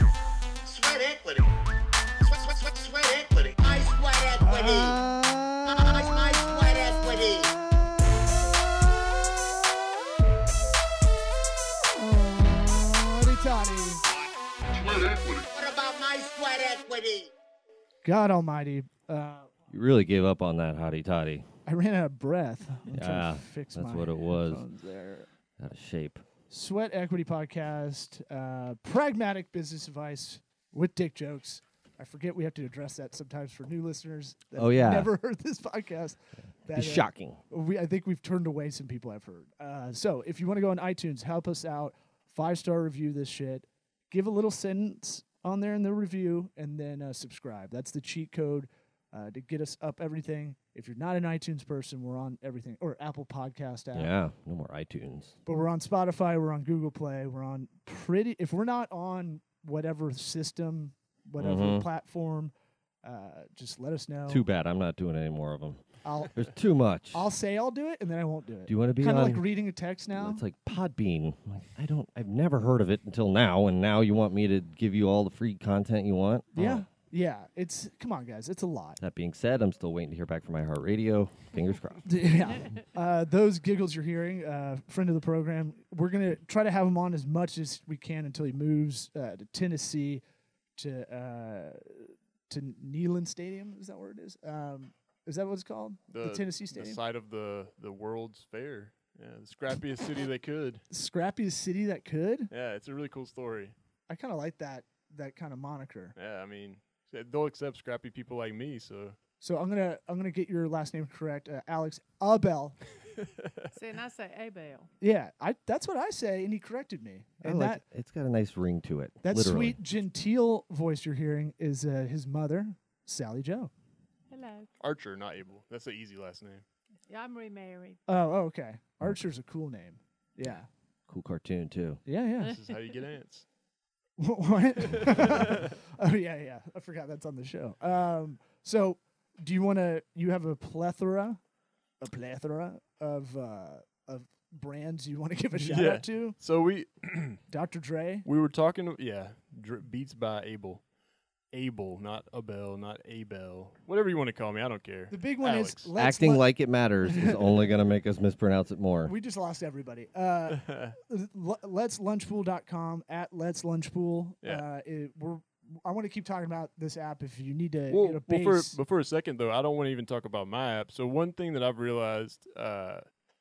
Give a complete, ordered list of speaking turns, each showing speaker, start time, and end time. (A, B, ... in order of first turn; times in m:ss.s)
0:00.6-0:01.5 A
0:02.2-0:05.0 A
0:04.4-0:06.0 B
0:05.7-0:07.5 A
0:11.9-0:14.0 B
0:14.1-0:17.3 A
0:18.0-0:19.5 B
0:19.7-0:21.5 C
0:21.7-0:25.3 B
0:22.9-0:24.6 C
0:25.6-0:26.2 C
0:26.5-0:54.1 B
0:34.6-0:35.1 C
0:36.7-0:37.4 C
0:53.9-0:55.4 C
0:55.5-1:04.5 B
1:01.4-1:01.9 C
1:04.3-1:07.3 C
1:06.0-1:06.4 B
1:07.1-1:10.4 B
1:08.7-1:09.4 C
1:10.1-1:16.8 C
1:16.5-1:19.0 B
1:19.0-1:22.6 C
1:22.0-1:30.2 B
1:30.8-1:37.0 B
1:36.1-1:40.8 D
1:40.9-1:42.5 B
1:42.5-1:43.7 D
1:44.1-1:46.2 B
1:46.2-1:49.2 D
1:49.4-1:52.8 B
1:53.2-1:53.6 D
1:53.7-1:54.9 E
1:55.0-1:57.8 B
1:57.4-1:59.8 C
1:59.2-2:03.7 B
2:04.3-2:04.7 E
2:04.8-2:06.6 D
2:07.1-2:08.0 E
2:08.1-2:10.7 B
2:11.1-2:12.0 C
2:12.1-2:12.6 B
2:12.4-2:13.0 E
2:12.4-2:13.4 D
2:14.2-2:21.4 B
2:14.8-2:15.8 D
2:22.0-2:26.4 B
2:25.6-2:27.4 D
2:27.5-2:28.3 B
2:28.2-2:30.8 D
2:31.5-2:35.9 D
2:35.1-2:36.5 B
2:36.0-2:39.1 C
2:37.1-2:37.6 B
2:39.0-2:48.8 B
2:40.5-2:41.0 D
2:47.9-2:53.0 D